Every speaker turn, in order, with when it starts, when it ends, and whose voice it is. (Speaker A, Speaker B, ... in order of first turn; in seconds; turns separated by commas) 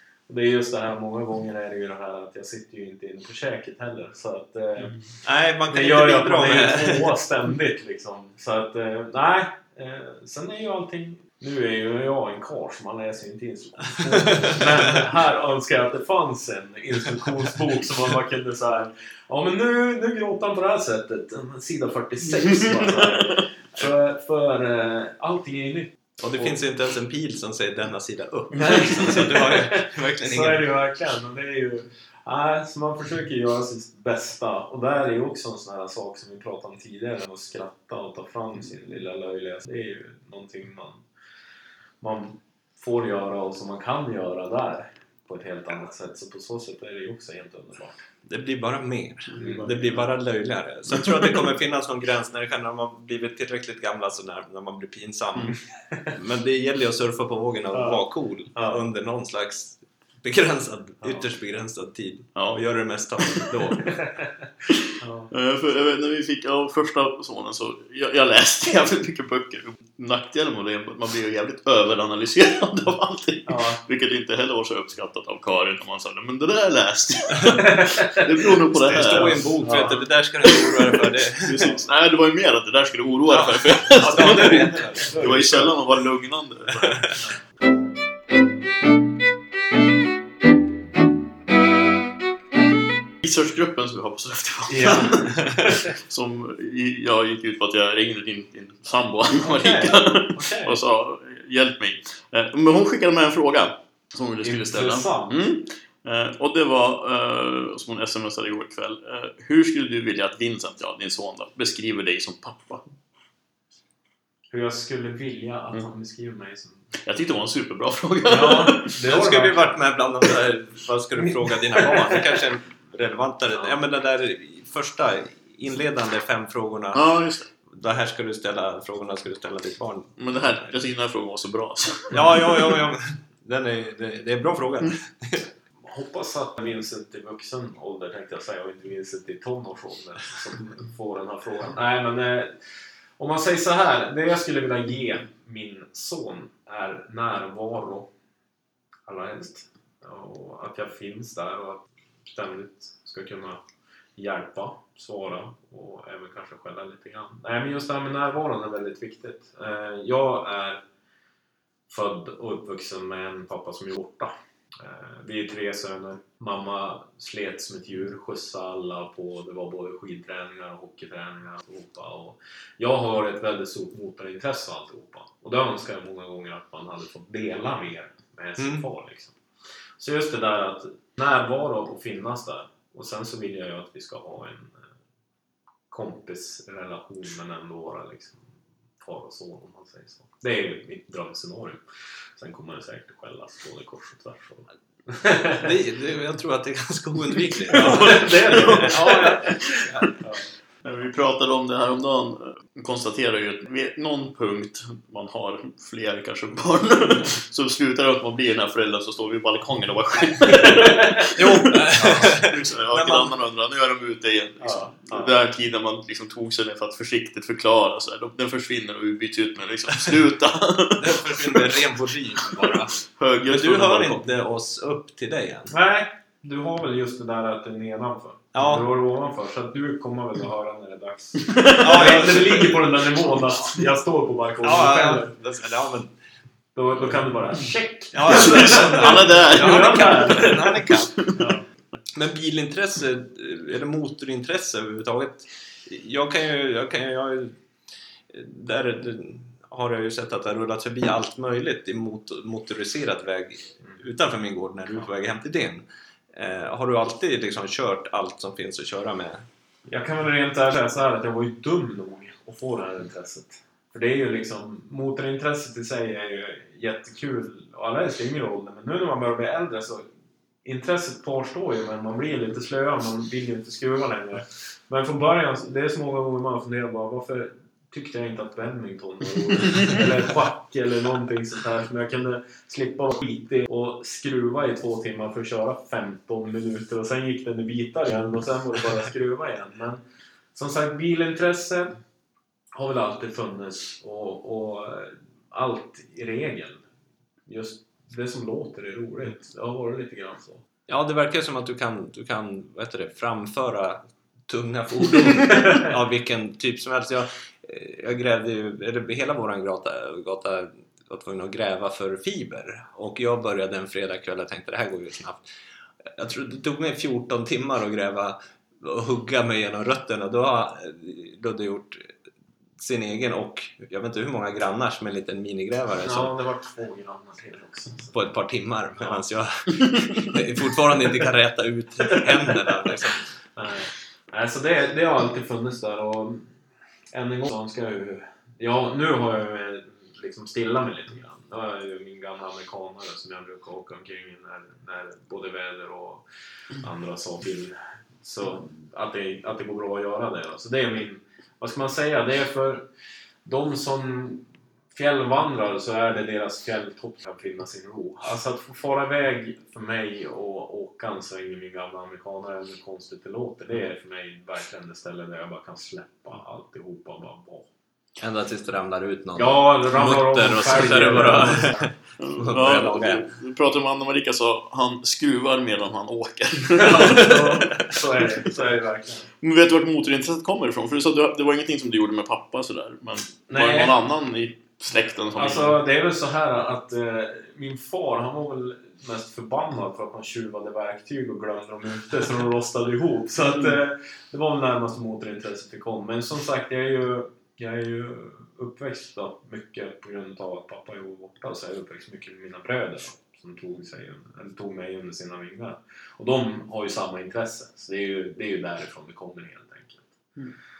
Speaker A: 0.3-5.0, Speaker B: 5.2-7.2, Speaker A: 5.7-26.6, Speaker B: 14.1-14.7, Speaker C: 22.7-23.4, Speaker B: 26.2-30.6, Speaker A: 28.5-41.0, Speaker A: 42.0-48.0, Speaker B: 48.2-55.6, Speaker A: 49.4-49.7, Speaker C: 49.5-49.8, Speaker B: 56.1-64.0, Speaker A: 57.7-58.8, Speaker C: 62.4-62.6, Speaker C: 63.2-63.8, Speaker C: 64.7-79.5, Speaker A: 65.0-65.3, Speaker A: 73.5-73.8, Speaker A: 77.5-78.2, Speaker B: 78.7-81.8, Speaker A: 79.2-80.0, Speaker C: 80.5-87.1, Speaker B: 83.3-85.6, Speaker A: 85.0-85.7, Speaker C: 93.2-112.8, Speaker A: 94.7-95.8, Speaker A: 99.4-100.8, Speaker A: 104.4-105.4, Speaker A: 114.5-116.8, Speaker C: 117.0-119.0, Speaker A: 118.2-119.7, Speaker B: 119.0-127.0, Speaker A: 121.8-122.2, Speaker C: 126.9-127.5, Speaker B: 127.7-130.7, Speaker C: 130.2-132.8, Speaker B: 132.1-135.5, Speaker A: 135.8-142.6, Speaker A: 143.2-148.1, Speaker A: 149.1-153.6, Speaker A: 154.2-160.8, Speaker A: 161.9-179.4, Speaker B: 178.6-178.8, Speaker A: 180.0-184.8, Speaker A: 185.9-188.5, Speaker A: 189.0-191.8, Speaker A: 192.4-195.7, Speaker B: 195.6-200.1, Speaker C: 197.7-200.1, Speaker A: 197.8-199.6, Speaker C: 200.8-221.8, Speaker A: 210.8-211.2, Speaker B: 211.3-213.3, Speaker A: 214.6-215.3, Speaker B: 221.0-225.7, Speaker C: 222.4-224.2, Speaker A: 225.7-235.3, Speaker B: 228.5-228.9, Speaker C: 231.5-232.3, Speaker B: 231.8-232.8, Speaker B: 234.6-236.1, Speaker A: 236.7-241.6, Speaker B: 238.1-241.2, Speaker C: 238.3-241.4, Speaker B: 242.1-247.5, Speaker B: 248.3-259.4, Speaker A: 259.9-270.1, Speaker A: 270.6-290.0, Speaker A: 290.5-292.0, Speaker A: 292.7-296.8, Speaker A: 297.4-300.6, Speaker B: 300.9-315.4, Speaker B: 316.0-322.1, Speaker B: 322.8-326.3, Speaker A: 326.0-328.2, Speaker B: 328.1-333.2, Speaker A: 333.6-336.5, Speaker A: 337.1-346.2, Speaker A: 346.8-352.9, Speaker A: 353.4-367.7, Speaker B: 368.2-373.2, Speaker A: 369.4-371.9, Speaker C: 372.2-377.7, Speaker A: 376.7-379.3, Speaker C: 379.4-385.8, Speaker A: 383.5-383.9, Speaker A: 385.4-410.1